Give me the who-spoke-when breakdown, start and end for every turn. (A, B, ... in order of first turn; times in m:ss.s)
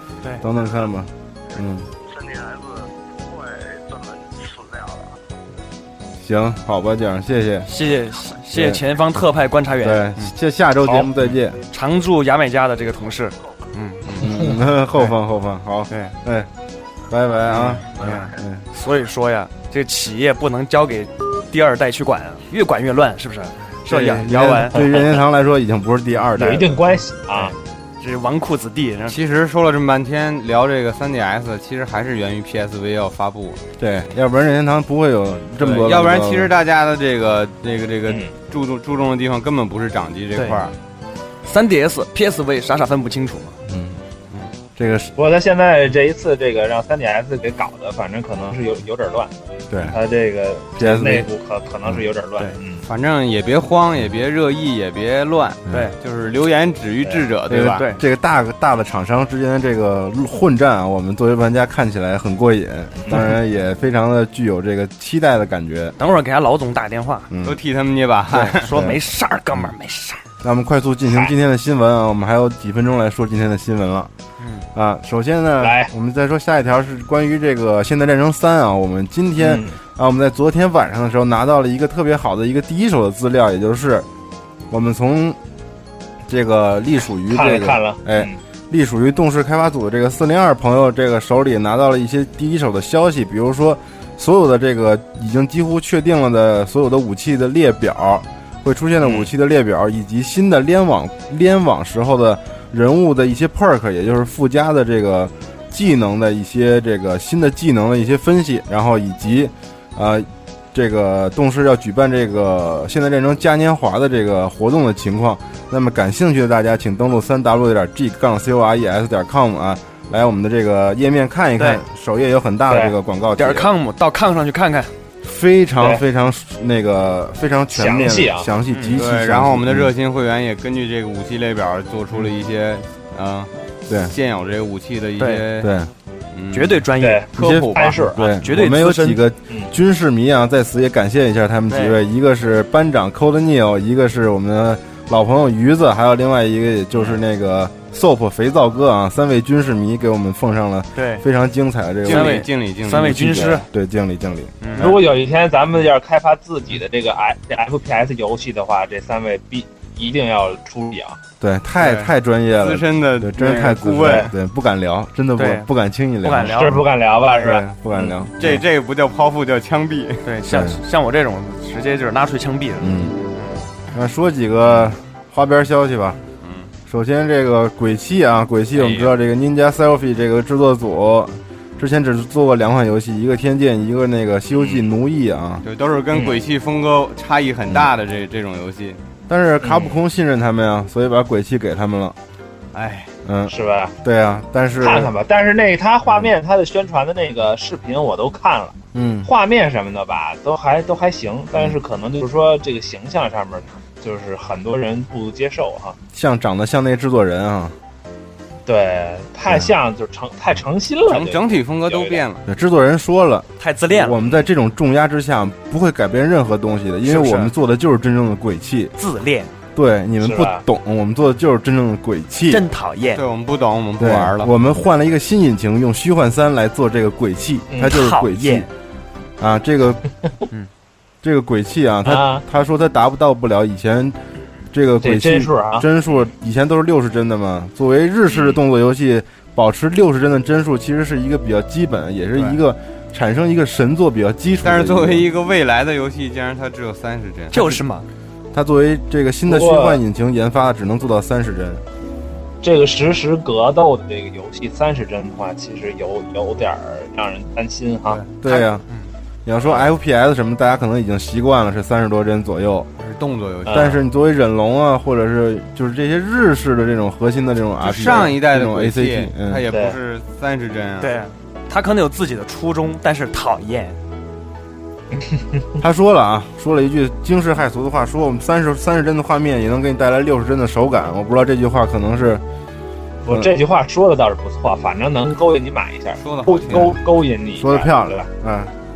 0:00.4-0:01.9 A
0:00.5-0:00.9 B
0:01.5-0:05.2 B
0:06.2-0:07.7 A
0:07.7-0:10.3 C
0:08.5-0:08.8 A
0:09.8-0:11.6 A
0:11.7-0:14.2 C
0:13.0-0:13.7 B
0:14.2-0:16.5 A
0:17.1-0:18.6 A
0:17.5-0:17.8 D
0:18.0-0:24.9 C
0:18.0-0:18.4 B
0:23.9-0:27.5 A
0:26.4-0:27.6 E
0:28.0-0:29.2 C
0:29.1-0:33.6 D
0:33.8-0:36.5 A
0:35.6-0:40.8 D
0:41.4-0:43.6 C
0:43.7-0:44.0 A
0:44.8-0:45.1 A
0:45.2-0:49.3 E
0:49.7-0:50.0 A
0:49.8-0:52.9 E
0:50.8-0:51.3 A
0:52.8-0:57.8 D
0:57.0-0:57.3 E
0:57.5-1:06.0 A
0:57.6-0:58.0 C
1:03.0-1:03.3 E
1:06.0-1:07.3 C
1:07.3-1:07.6 A
1:07.4-1:08.7 D
1:08.3-1:09.0 A
1:08.3-1:10.2 C
1:10.4-1:14.1 A
1:14.4-1:14.7 C
1:14.7-1:24.1 A
1:15.6-1:15.9 E
1:19.4-1:19.8 E
1:24.7-1:25.4 A
1:26.3-2:03.7 A
1:27.3-1:28.4 E
1:39.0-1:39.3 E
2:02.7-2:03.0 E
2:03.4-2:04.9 C
2:05.2-2:09.9 A
2:07.7-2:08.5 E
2:08.7-2:09.0 C
2:09.0-2:13.5 D
2:13.9-2:14.1 A
2:14.0-2:15.7 D
2:15.2-2:15.4 C
2:15.6-2:15.9 A
2:16.3-2:18.0 D
2:16.5-2:17.2 C
2:17.0-2:18.2 E
2:17.4-2:34.8 A
2:18.2-2:19.2 C
2:21.7-2:22.0 C
2:31.0-2:31.2 C
2:32.0-2:33.6 D
2:32.1-2:33.7 C
2:34.6-2:35.0 C
2:34.8-2:41.2 E
2:41.4-2:46.9 A
2:41.8-2:44.3 D
2:45.4-2:45.7 C
2:46.2-2:46.8 C
2:46.4-2:48.1 E
2:47.4-2:48.6 A
2:48.4-2:50.2 D
2:50.2-2:52.9 C
2:50.5-2:50.8 A
2:52.8-2:53.2 A
2:53.9-2:56.2 A
2:56.4-2:56.7 D
2:56.9-3:05.6 A
2:58.7-2:59.1 D
3:05.6-3:09.0 D
3:06.1-3:06.4 E
3:09.3-3:12.2 A
3:09.6-3:10.0 E
3:12.7-3:13.1 D
3:13.2-3:15.1 A
3:13.5-3:14.0 E
3:14.8-3:26.0 E
3:18.9-3:19.3 A
3:26.1-3:27.8 A
3:28.7-3:32.2 E
3:29.5-3:29.7 A
3:31.1-3:32.4 D
3:32.5-3:38.9 A
3:33.6-3:34.2 C
3:37.0-3:37.5 C
3:39.0-3:39.5 C
3:39.8-3:42.6 A
3:40.2-3:40.6 E
3:42.5-3:43.2 C
3:43.1-3:44.5 D
3:44.0-3:48.7 A
3:47.8-3:48.7 C
3:49.4-3:50.0 A
3:51.2-3:54.2 A
3:52.0-3:52.4 E
3:54.7-4:05.3 A
3:55.0-3:55.9 E
3:58.3-3:58.6 E
4:04.6-4:07.7 D
4:07.5-4:08.1 C
4:08.5-4:11.8 A
4:09.5-4:10.0 E
4:12.6-4:18.2 E
4:18.4-4:18.8 A
4:19.5-4:22.9 A
4:23.0-4:24.0 D
4:23.7-4:24.0 E
4:23.7-4:29.6 A
4:27.8-4:31.1 D
4:29.7-4:30.0 E
4:31.0-4:34.0 C
4:35.1-4:35.6 E
4:35.8-4:42.4 A
4:43.2-4:48.3 E
4:46.2-4:47.0 D
4:46.7-4:47.0 A
4:47.6-4:48.7 A